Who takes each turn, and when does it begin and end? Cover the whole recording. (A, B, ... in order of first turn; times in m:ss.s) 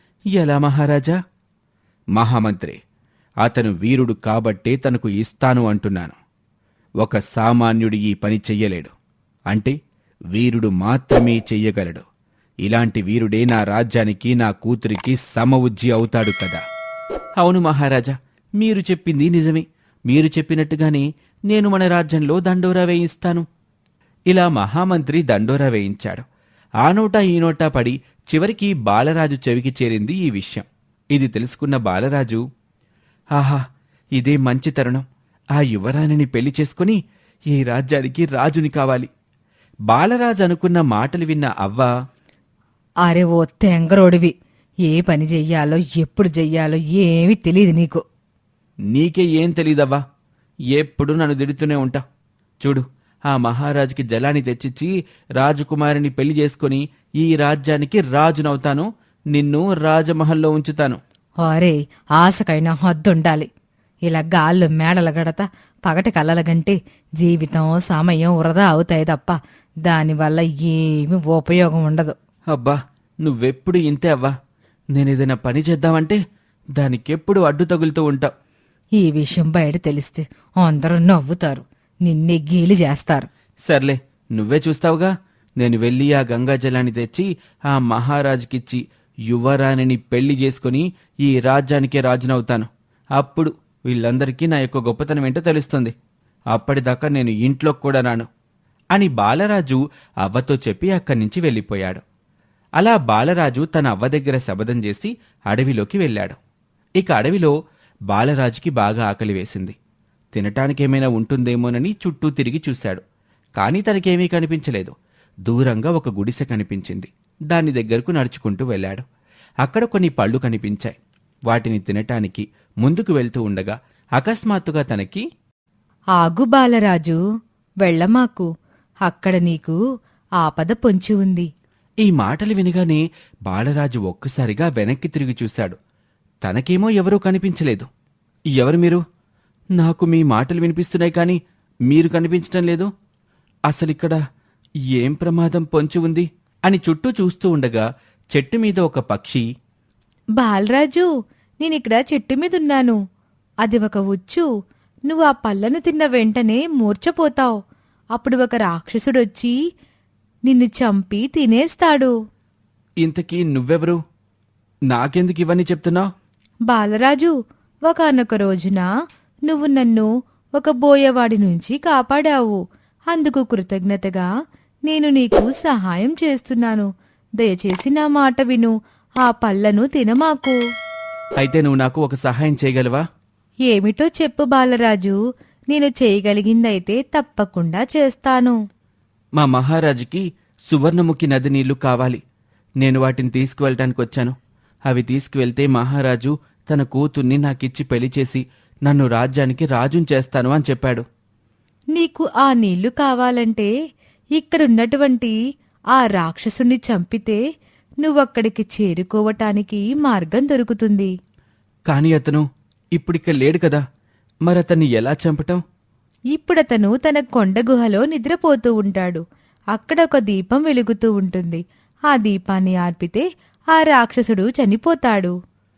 0:00.4-0:01.2 A
0:02.2-0:02.8 A
0:03.4-0:06.2 A
0:07.0-0:08.9 A
0:10.3-0:12.0 A
0:12.6-0:16.6 A
0:17.4-0:23.4 A
0:24.3-0:26.3 A
0:26.8-0:32.4 A
0:33.4-0:33.6 A
0:34.2-0:35.0 A
0:35.6-0:37.0 A
0:37.5-0:39.1 A
0:39.9-0:41.9 A
0:43.1-0:44.3 B
0:44.9-0:48.0 B
0:48.9-0:50.0 A
0:50.7-0:52.0 A
0:52.6-1:01.0 A
1:01.4-1:03.5 B
1:04.1-1:12.2 B
1:12.5-1:14.4 A
1:15.0-1:16.2 A
1:16.8-1:18.3 A
1:19.0-1:23.3 B
1:23.6-1:36.0 A
1:36.5-1:38.3 A
1:38.9-1:42.0 A
1:42.8-1:46.4 A
1:47.0-1:47.5 A
1:48.1-1:49.8 A
1:50.3-1:53.0 A
1:53.6-1:55.0 A
1:55.5-1:59.0 A
1:59.6-2:01.0 A
2:01.5-2:05.2 A
2:06.2-2:07.2 B
2:07.8-2:08.5 B
2:09.1-2:09.8 B
2:10.4-2:11.5 B
2:12.0-2:15.8 A
2:16.4-2:17.9 A
2:18.5-2:19.0 A
2:19.8-2:22.9 A
2:23.7-2:24.2 A
2:24.9-2:29.4 A
2:30.4-2:31.1 B
2:31.6-2:33.0 B
2:33.6-2:34.5 B
2:35.1-2:37.6 B
2:38.2-2:39.6 B
2:40.5-2:42.1 B
2:43.0-2:44.0 A
2:44.9-2:46.1 A
2:46.7-2:47.3 B
2:47.9-2:48.9 B
2:49.5-2:52.6 B
2:53.1-2:54.3 B
2:54.9-2:56.9 B
2:57.4-3:00.6 B
3:01.4-3:03.0 A
3:03.7-3:05.2 B
3:05.7-3:08.6 B
3:09.4-3:12.2 A
3:12.8-3:14.4 A
3:14.9-3:21.0 A
3:22.0-3:23.7 B
3:24.4-3:25.4 B
3:25.9-3:27.4 B
3:28.0-3:31.1 B
3:31.9-3:33.8 A
3:34.5-3:35.6 A
3:36.3-3:45.3 B